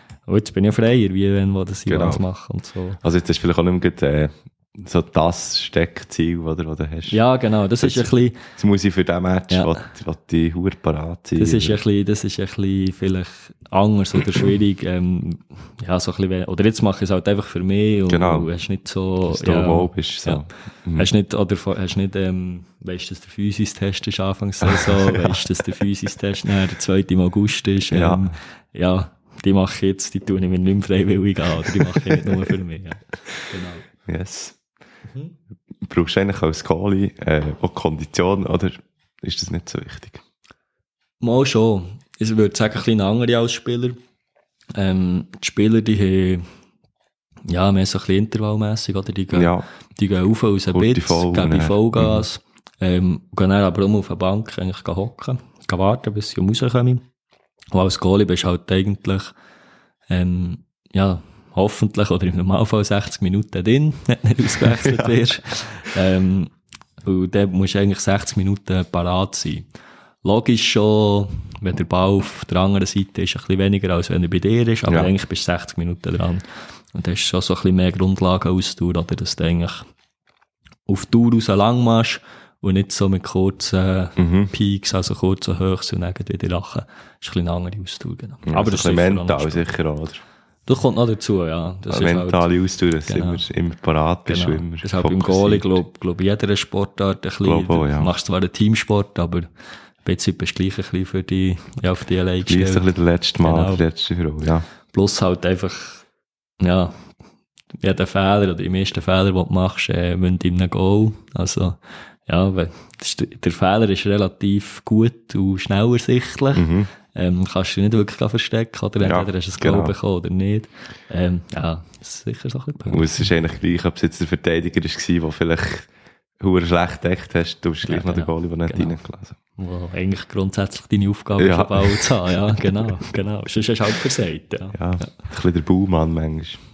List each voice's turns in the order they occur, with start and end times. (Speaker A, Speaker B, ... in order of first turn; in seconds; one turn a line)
Speaker A: 0.3-3.0
Speaker B: 1.9-2.2
Speaker B: 3.0-7.2
Speaker A: 7.1-8.4
Speaker B: 7.8-11.8
Speaker A: 9.5-9.8
Speaker A: 11.4-33.8
Speaker B: 18.1-18.5
Speaker B: 19.3-21.1
Speaker B: 24.6-25.4
Speaker B: 27.9-28.3
Speaker B: 31.8-32.4
Speaker B: 34.0-34.6
Speaker A: 35.1-35.3
Speaker B: 35.8-40.2
Speaker A: 41.2-44.0
Speaker A: 44.7-46.5
Speaker A: 47.5-57.0
Speaker B: 49.3-49.6
Speaker B: 50.7-52.2
Speaker A: 57.7-59.3
Speaker A: 60.1-66.5
Speaker B: 64.6-65.2
Speaker A: 67.0-69.7
Speaker A: 70.2-79.9
Speaker A: 80.9-89.7
Speaker B: 84.2-84.5
Speaker B: 88.5-90.2
Speaker A: 90.7-92.5
Speaker B: 91.9-95.8
Speaker A: 93.0-93.4
Speaker A: 94.2-99.5
Speaker B: 97.4-98.1
Speaker A: 100.0-102.9
Speaker B: 102.5-104.7
Speaker A: 103.4-103.8
Speaker A: 104.9-106.0
Speaker A: 106.6-107.1
Speaker A: 107.8-123.3
Speaker B: 116.5-116.9
Speaker B: 119.0-119.9
Speaker B: 122.9-125.9
Speaker B: 126.4-129.3
Speaker A: 127.8-129.0
Speaker A: 129.6-135.1
Speaker B: 131.4-132.7
Speaker B: 134.7-136.6